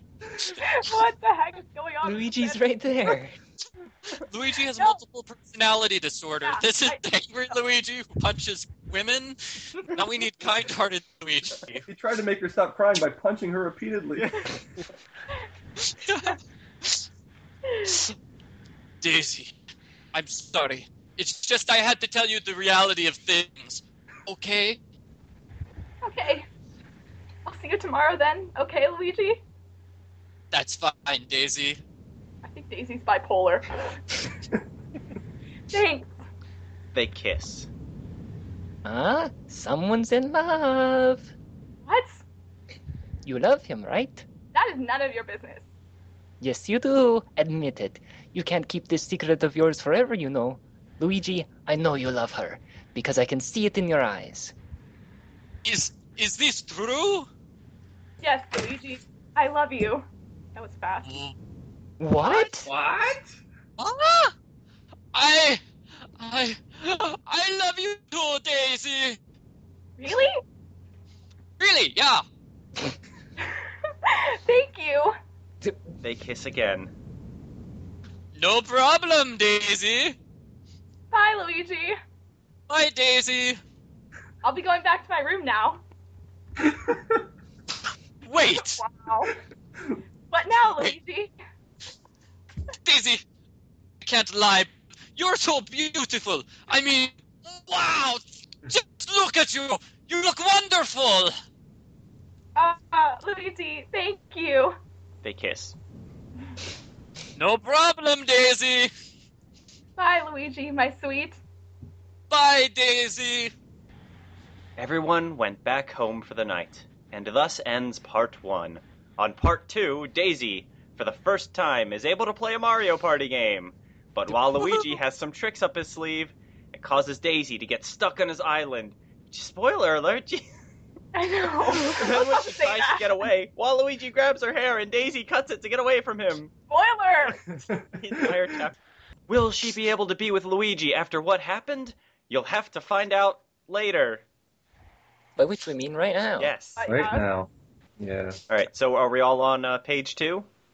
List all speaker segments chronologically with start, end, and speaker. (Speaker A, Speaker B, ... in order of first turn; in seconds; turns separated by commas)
Speaker A: 0.4-2.6, Speaker B: 2.0-3.4, Speaker C: 4.1-11.8, Speaker A: 6.4-7.0, Speaker D: 11.8-14.5, Speaker C: 15.8-17.0, Speaker A: 17.6-18.0, Speaker C: 19.0-19.5, Speaker C: 20.1-24.8, Speaker A: 26.0-26.5, Speaker A: 27.4-29.4, Speaker C: 30.5-31.8, Speaker A: 32.4-34.0, Speaker A: 35.7-36.1, Speaker E: 36.9-37.7, Speaker B: 38.8-41.3, Speaker A: 41.8-42.2, Speaker B: 43.2-44.2, Speaker A: 44.5-45.6, Speaker B: 46.4-54.5, Speaker C: 55.6-57.3, Speaker A: 58.2-61.1, Speaker C: 61.0-61.3, Speaker B: 62.0-62.7, Speaker D: 62.6-63.3, Speaker C: 63.8-64.3, Speaker C: 65.1-65.6, Speaker C: 66.2-69.2, Speaker A: 70.0-70.4, Speaker C: 71.6-72.2, Speaker A: 73.4-75.2, Speaker E: 76.0-76.9, Speaker C: 78.3-80.2, Speaker A: 81.1-82.0, Speaker C: 82.7-83.6, Speaker A: 84.4-85.8, Speaker D: 86.7-87.0, Speaker C: 88.2-88.8, Speaker A: 88.5-89.3, Speaker A: 90.3-91.3, Speaker C: 92.8-93.2, Speaker C: 94.0-101.3, Speaker A: 102.5-104.8, Speaker E: 105.2-105.8, Speaker C: 107.4-108.9, Speaker A: 110.0-111.4, Speaker C: 112.3-113.5, Speaker E: 114.8-130.5, Speaker A: 131.1-133.1, Speaker E: 131.8-136.5, Speaker A: 136.7-137.5, Speaker E: 137.9-138.8, Speaker E: 139.3-144.2, Speaker B: 145.3-146.5, Speaker E: 146.4-146.8, Speaker A: 146.8-147.3, Speaker D: 146.8-148.4, Speaker E: 148.5-150.5